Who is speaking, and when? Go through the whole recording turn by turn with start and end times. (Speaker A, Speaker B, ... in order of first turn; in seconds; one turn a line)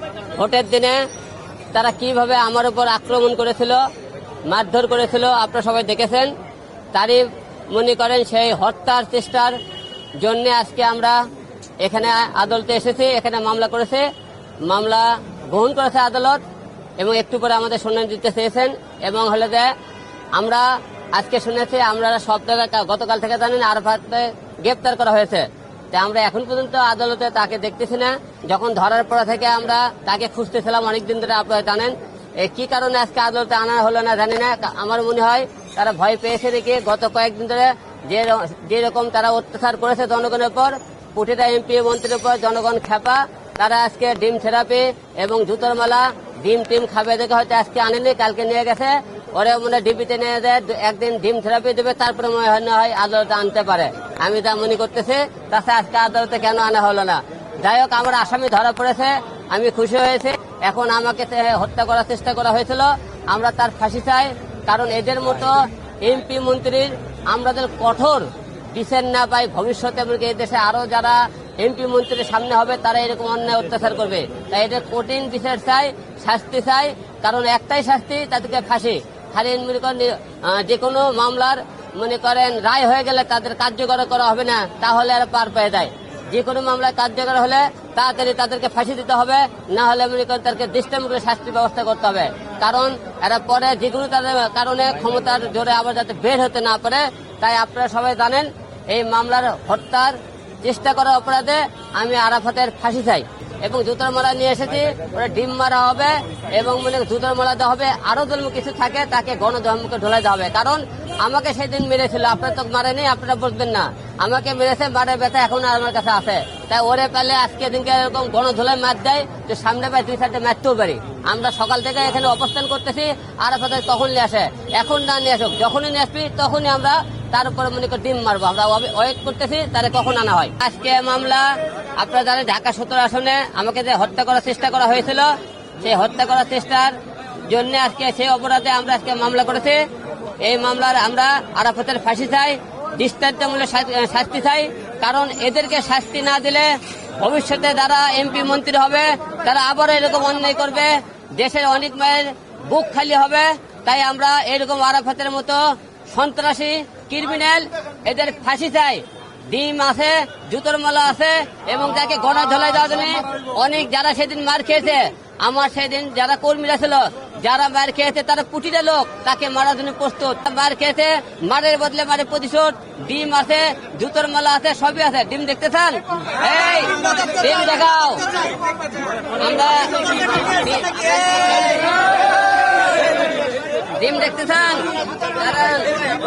Speaker A: 0.4-1.0
Speaker A: 1.7-3.8
Speaker A: 4.5-6.3
Speaker A: 6.9-9.6
Speaker A: 10.2-11.2
Speaker A: 11.8-14.1
Speaker A: 14.7-16.4
Speaker A: 17.0-19.7
Speaker A: 20.4-137.0
Speaker A: 137.5-139.8
Speaker A: 140.4-155.6
Speaker A: 156.1-178.3
Speaker A: 179.4-182.0
Speaker A: 184.0-185.9